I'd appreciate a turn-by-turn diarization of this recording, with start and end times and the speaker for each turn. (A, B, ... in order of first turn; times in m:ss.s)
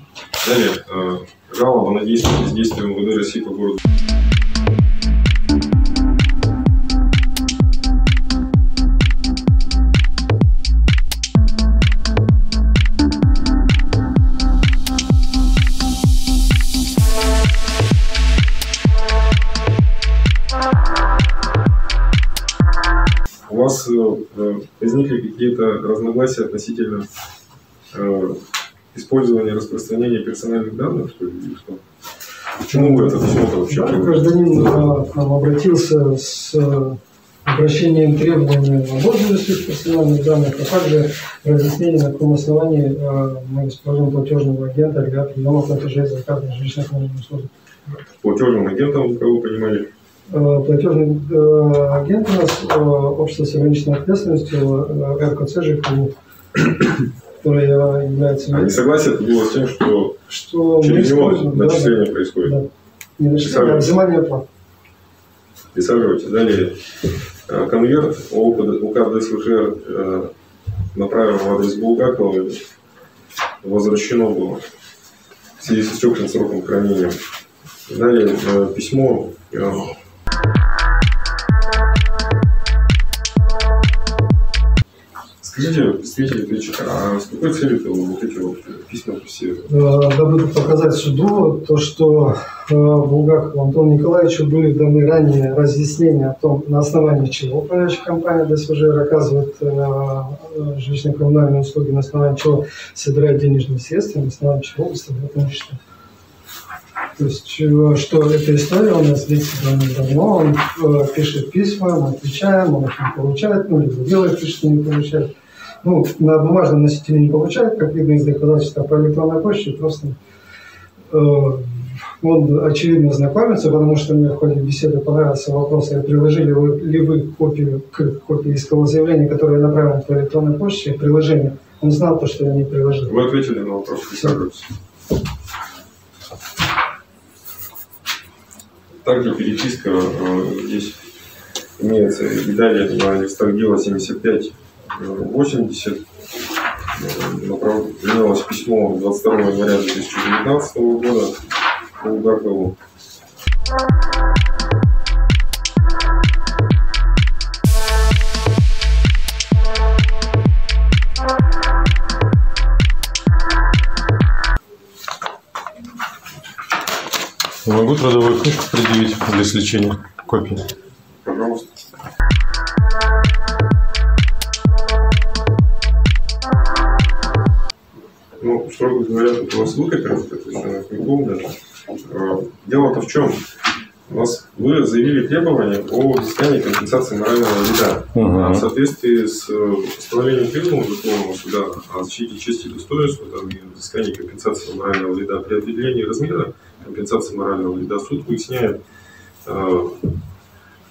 0:00.4-0:03.8 A
0:23.5-0:27.1 A
0:27.9-0:28.4 A
0:28.9-0:31.8 A
0:32.6-0:34.2 A
0:32.7-0:47.5 B
0:48.2-0:49.9 A
0:50.3-0:56.1 B
0:57.4-0:58.7 B
0:58.5-1:00.2 A
1:00.3-1:02.7 B
1:00.8-1:02.6 A
1:03.2-1:04.4 B
1:03.4-1:04.0 A
1:05.7-1:06.8 A
1:07.5-1:10.3 A
1:10.9-1:12.6 A
1:13.6-1:14.6 A
1:15.6-1:17.2 A
1:17.9-1:19.9 A
1:25.4-1:29.7 A
1:29.7-1:45.8 B
1:47.2-1:55.3 B
1:55.8-2:00.2 B
2:01.1-2:13.1 B
2:13.0-2:14.7 A
2:19.0-2:21.0 A
2:21.8-2:26.0 A
2:26.9-2:31.4 A
2:32.0-2:32.8 A
2:47.6-2:50.6 C
2:51.2-2:51.7 A
2:58.4-3:03.4 A
3:04.1-3:18.8 A
3:08.1-3:08.6 C
3:19.4-3:20.1 A